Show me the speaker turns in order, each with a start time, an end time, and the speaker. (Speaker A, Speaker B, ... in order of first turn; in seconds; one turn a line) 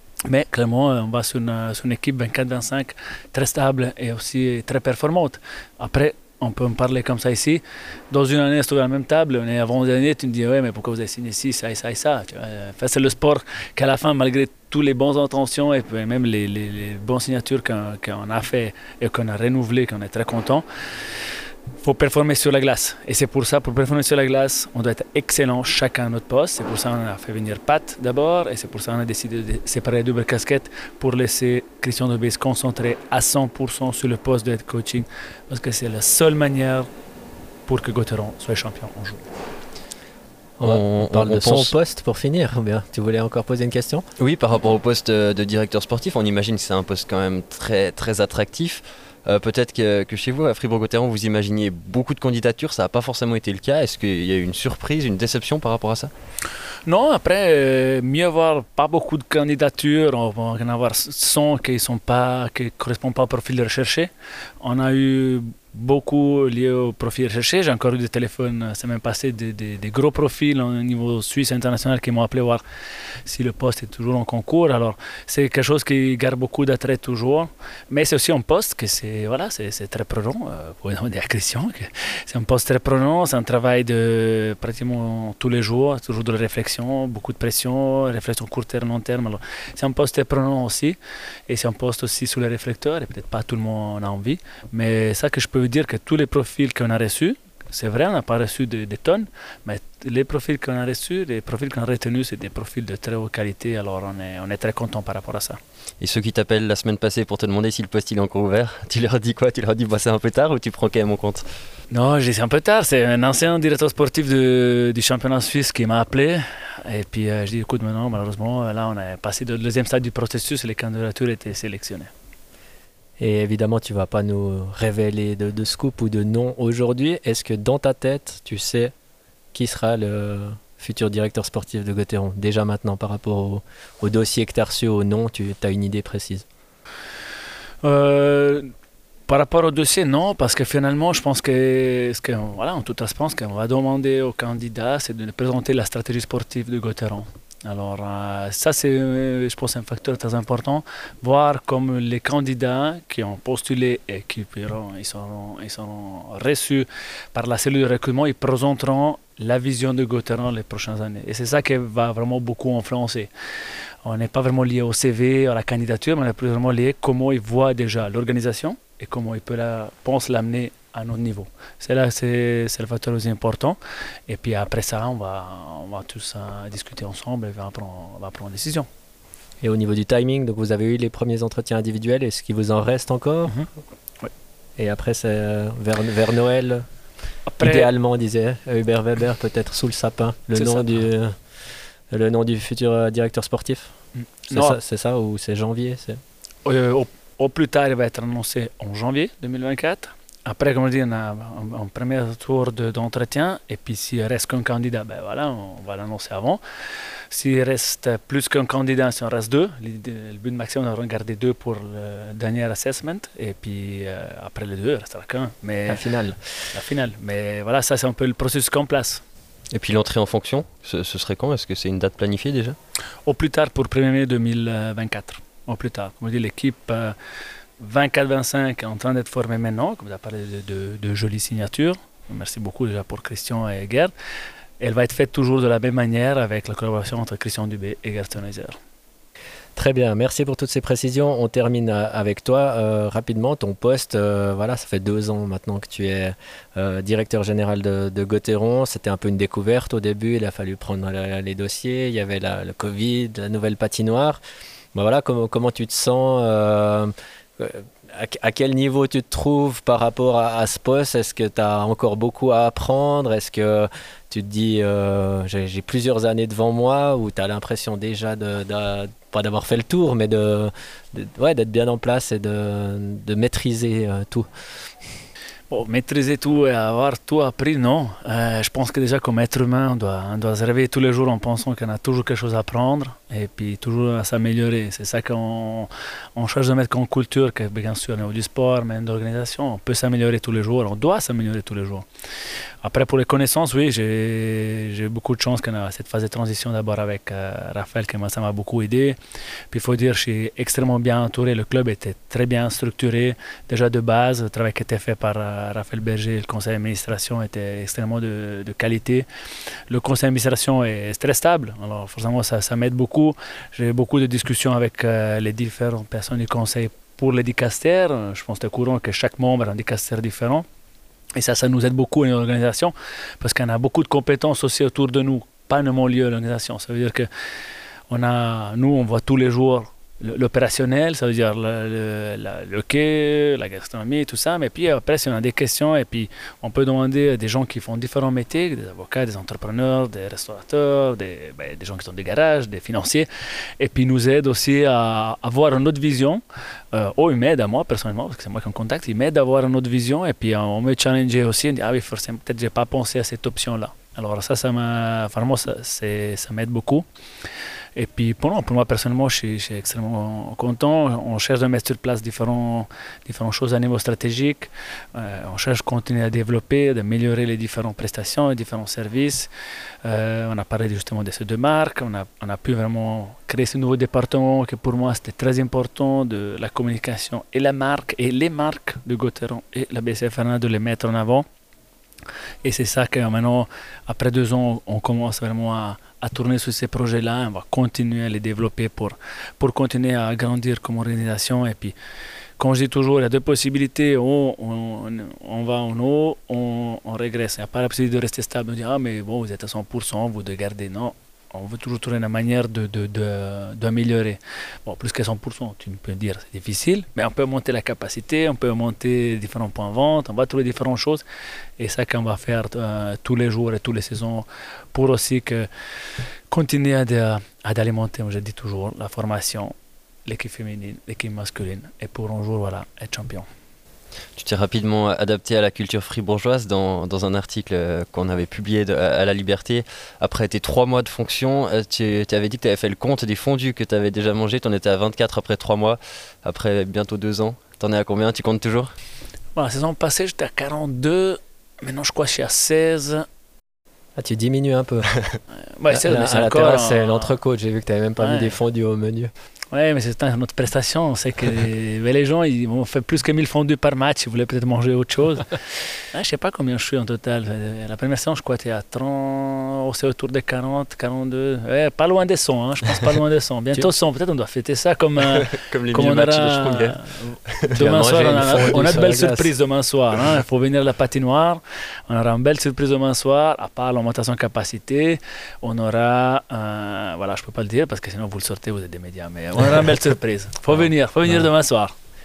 Speaker A: 0.2-20.6
Speaker A: 21.8-36.9
Speaker A: 37.7-39.3
Speaker B: 40.6-44.1
Speaker C: 40.6-41.7
Speaker C: 44.2-56.1
Speaker A: 56.9-72.6
Speaker A: 73.2-105.6
Speaker C: 106.0-111.5
Speaker A: 111.9-122.1
Speaker B: 123.2-128.9
Speaker B: 129.5-136.5
Speaker A: 137.8-138.7
Speaker A: 139.3-163.3
Speaker A: 164.0-178.9
Speaker B: 179.6-183.6
Speaker B: 184.8-186.9
Speaker A: 187.5-187.9
Speaker B: 187.6-191.4
Speaker A: 190.6-191.0
Speaker B: 192.1-193.9
Speaker A: 194.2-194.8
Speaker B: 194.5-196.2
Speaker A: 196.7-206.6
Speaker A: 207.3-216.1
Speaker B: 215.9-216.4
Speaker A: 216.7-219.2
Speaker C: 219.7-222.8
Speaker A: 223.3-227.2
Speaker A: 227.8-234.1
Speaker A: 234.8-238.8
Speaker B: 239.8-254.4
Speaker B: 254.9-275.1
Speaker A: 275.7-292.1
Speaker A: 292.8-299.2
Speaker A: 299.7-309.3
Speaker A: 309.9-320.7
Speaker A: 321.4-327.3
Speaker A: 328.1-343.3
Speaker A: 343.8-357.1
Speaker A: 357.9-369.5
Speaker A: 370.0-381.5
Speaker A: 382.6-391.9
Speaker A: 392.6-411.2
Speaker A: 411.8-415.7
Speaker A: 416.5-419.7
Speaker A: 420.3-423.5
Speaker C: 424.4-438.9
Speaker A: 439.6-443.3
Speaker B: 444.2-445.1
Speaker A: 445.8-447.4
Speaker B: 445.9-449.3
Speaker A: 448.2-448.5
Speaker A: 449.7-481.9
Speaker C: 465.3-467.7
Speaker B: 467.8-469.5